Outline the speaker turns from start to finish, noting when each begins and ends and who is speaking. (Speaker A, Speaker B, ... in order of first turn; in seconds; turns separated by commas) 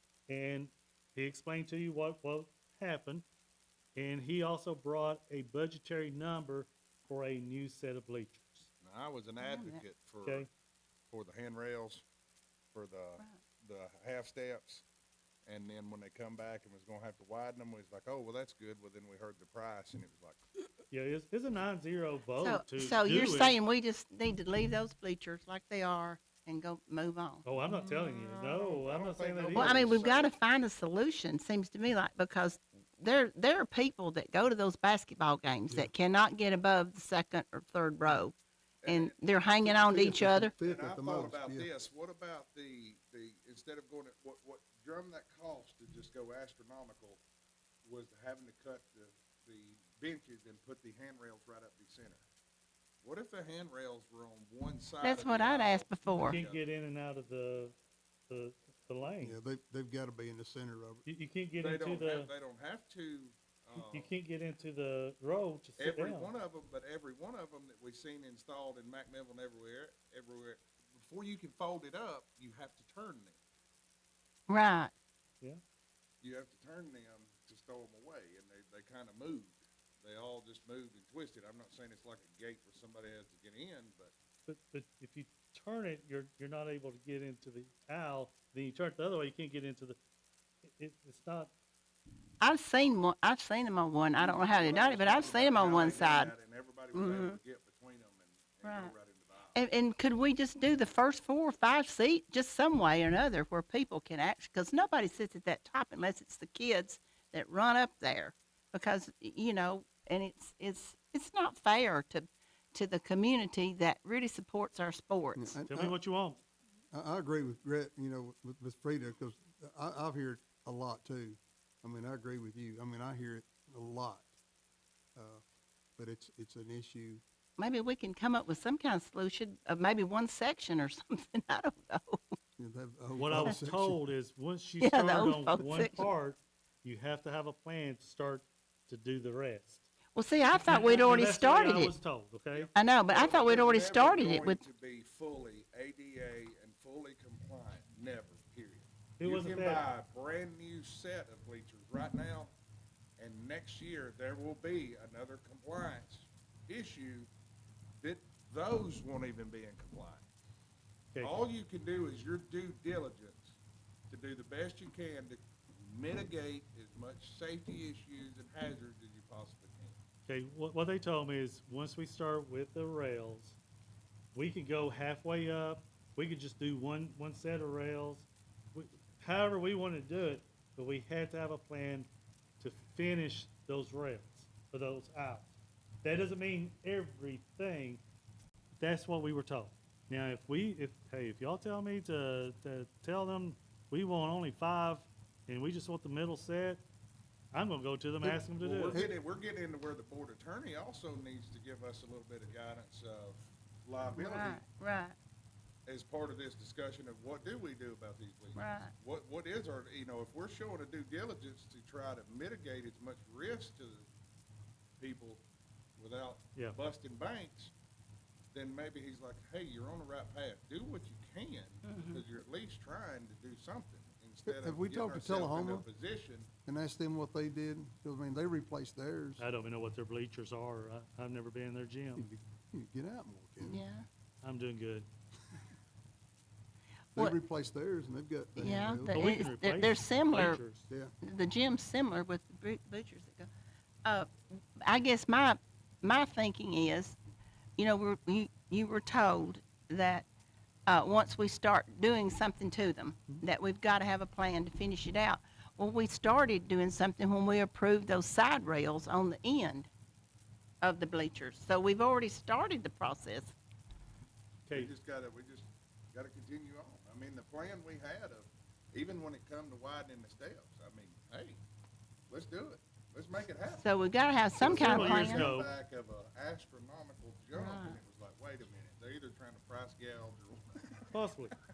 Speaker A: 0.3-3.2, Speaker A: 4.0-8.7, Speaker B: 8.8-10.5, Speaker C: 9.4-9.8, Speaker B: 11.1-12.0, Speaker B: 12.7-14.8, Speaker B: 15.4-20.4, Speaker A: 20.9-23.6, Speaker C: 22.4-27.5, Speaker A: 27.4-30.0, Speaker B: 27.7-30.3, Speaker C: 29.5-40.6, Speaker B: 38.8-47.2, Speaker D: 39.8-41.7, Speaker B: 47.8-52.2, Speaker B: 53.0-56.6, Speaker C: 55.0-56.4, Speaker A: 56.1-57.8, Speaker A: 58.3-59.4, Speaker D: 59.2-61.0, Speaker A: 61.1-62.3, Speaker B: 61.6-64.1, Speaker A: 63.8-66.3, Speaker B: 65.8-73.4, Speaker C: 74.5-74.9, Speaker B: 76.2-84.1, Speaker A: 84.5-90.0, Speaker A: 90.6-91.5, Speaker C: 92.4-96.3, Speaker B: 94.2-99.6, Speaker C: 96.9-97.4, Speaker C: 98.6-98.9, Speaker C: 99.5-115.6, Speaker D: 115.3-116.0, Speaker A: 115.7-116.4, Speaker D: 116.9-124.3, Speaker D: 125.2-125.4, Speaker D: 126.0-127.2, Speaker C: 127.6-132.3, Speaker D: 132.6-134.0, Speaker A: 133.2-139.9, Speaker C: 134.8-136.1, Speaker C: 140.2-141.9, Speaker A: 140.6-142.7, Speaker B: 142.6-152.5, Speaker C: 142.8-144.6, Speaker A: 149.2-149.9, Speaker B: 153.2-157.3, Speaker B: 158.0-160.3, Speaker B: 161.2-163.6, Speaker B: 164.1-170.0, Speaker A: 170.3-173.6, Speaker A: 174.3-182.1, Speaker A: 182.6-185.5, Speaker A: 186.0-188.0, Speaker A: 188.8-196.8, Speaker A: 197.5-199.1, Speaker B: 198.5-204.6, Speaker C: 204.1-205.2, Speaker B: 205.9-214.1, Speaker C: 208.6-208.9, Speaker B: 215.0-215.4, Speaker B: 216.0-217.7, Speaker B: 218.5-226.5, Speaker C: 221.8-222.2, Speaker D: 224.5-225.9, Speaker D: 226.7-229.4, Speaker A: 229.4-232.3, Speaker D: 232.2-233.8, Speaker C: 233.6-234.1, Speaker A: 234.4-235.1, Speaker D: 237.2-239.2, Speaker C: 238.6-240.6, Speaker A: 239.1-240.9, Speaker C: 241.2-243.5, Speaker C: 244.1-247.2, Speaker C: 247.8-250.3, Speaker C: 250.9-259.9, Speaker C: 260.8-263.6, Speaker A: 264.7-264.9, Speaker B: 264.7-271.6, Speaker B: 272.3-273.9, Speaker C: 273.8-275.5, Speaker B: 274.6-281.1, Speaker A: 274.6-275.7, Speaker C: 277.5-278.0, Speaker A: 281.1-281.5